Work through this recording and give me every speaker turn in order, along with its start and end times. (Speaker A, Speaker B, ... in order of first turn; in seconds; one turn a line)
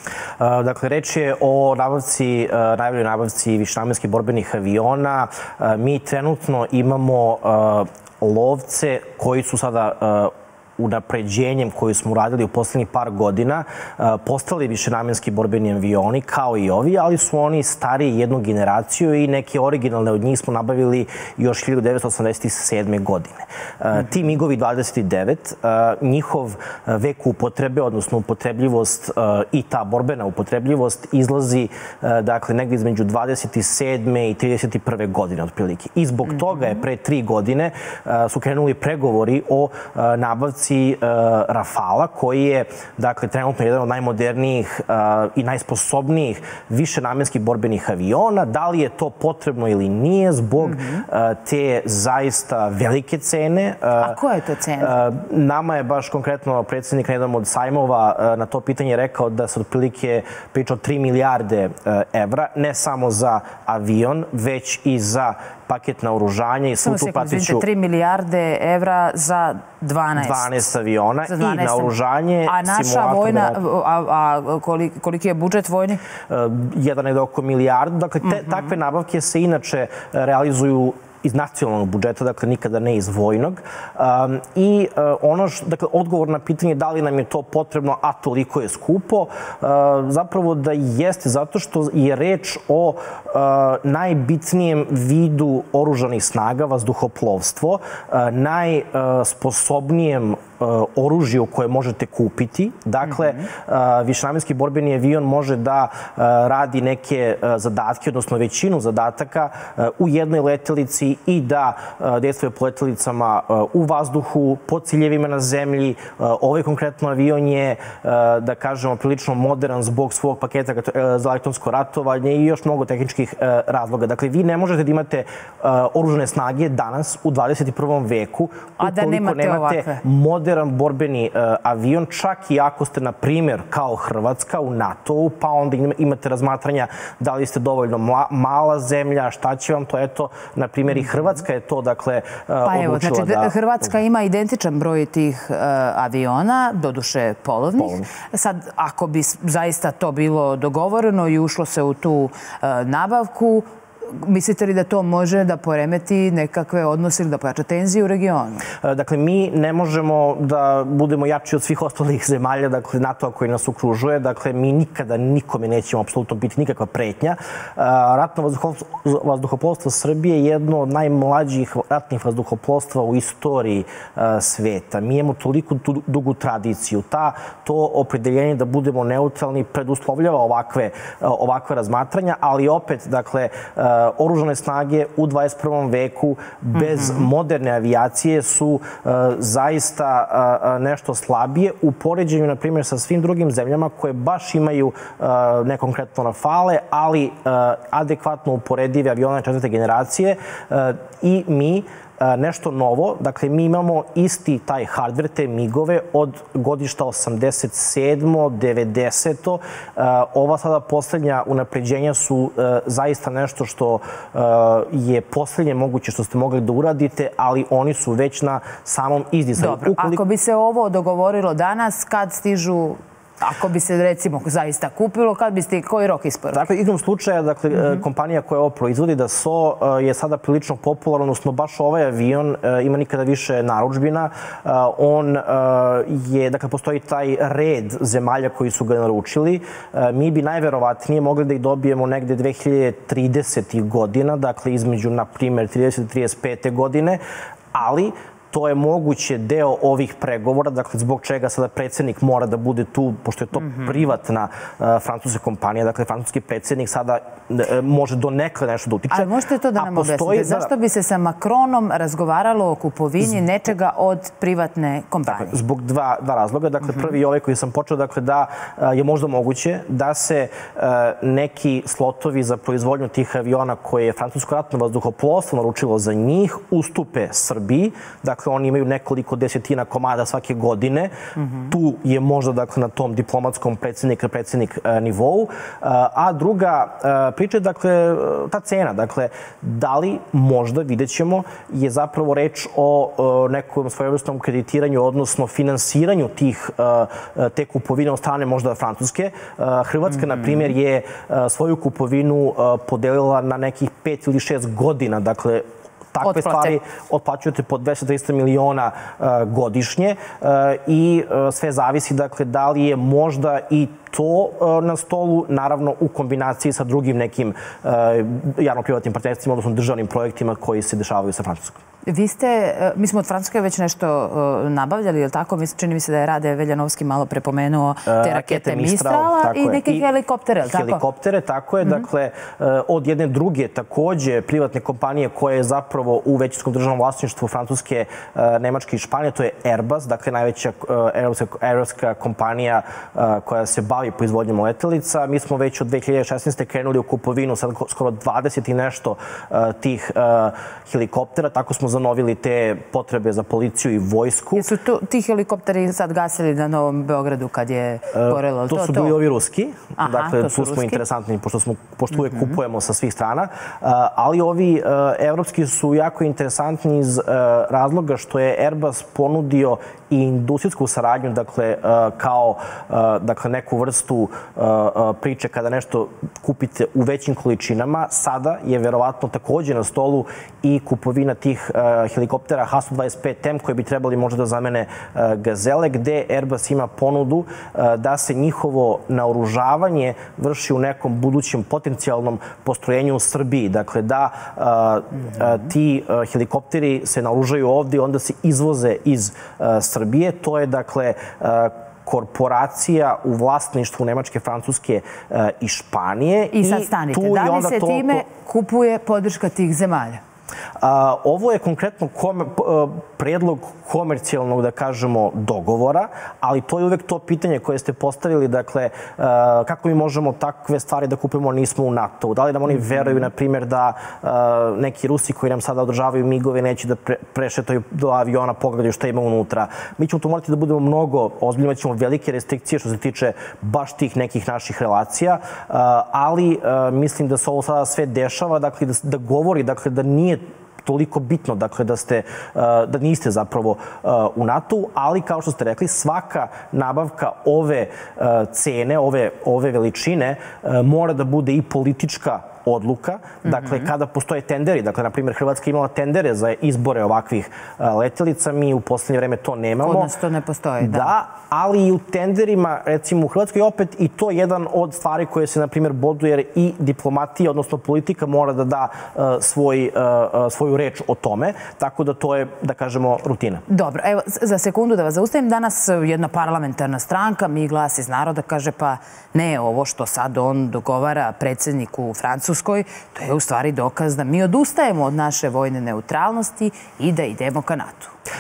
Speaker A: 0.4-54.2
Speaker B: 36.3-36.8
Speaker B: 50.6-51.0
Speaker B: 54.0-55.0
Speaker A: 54.8-67.7
Speaker B: 66.8-70.7
Speaker A: 70.2-73.6
Speaker B: 71.3-71.9
Speaker B: 72.5-76.0
Speaker A: 76.3-143.9
Speaker B: 78.2-78.8
Speaker B: 103.0-103.5
Speaker B: 128.8-130.0
Speaker B: 140.9-141.4
Speaker B: 142.7-158.7
Speaker A: 147.8-148.1
Speaker A: 158.8-220.2
Speaker B: 186.7-187.3
Speaker B: 219.6-226.7
Speaker A: 226.5-247.2
Speaker B: 227.7-228.0
Speaker A: 247.7-260.7
Speaker B: 253.5-254.1
Speaker B: 259.1-265.6
Speaker A: 265.3-281.1
Speaker B: 266.8-267.1
Speaker B: 281.4-281.8
Speaker A: 281.7-321.8
Speaker B: 300.1-300.7
Speaker B: 306.2-306.8
Speaker B: 322.1-331.0
Speaker A: 328.1-330.1
Speaker A: 330.6-354.7
Speaker B: 354.6-359.2
Speaker A: 358.1-408.3
Speaker B: 360.0-361.0
Speaker B: 362.1-362.6
Speaker B: 406.5-410.2
Speaker A: 410.8-460.1
Speaker B: 422.7-423.3
Speaker B: 453.4-453.9
Speaker B: 459.8-461.1
Speaker A: 460.8-473.6
Speaker B: 473.7-488.1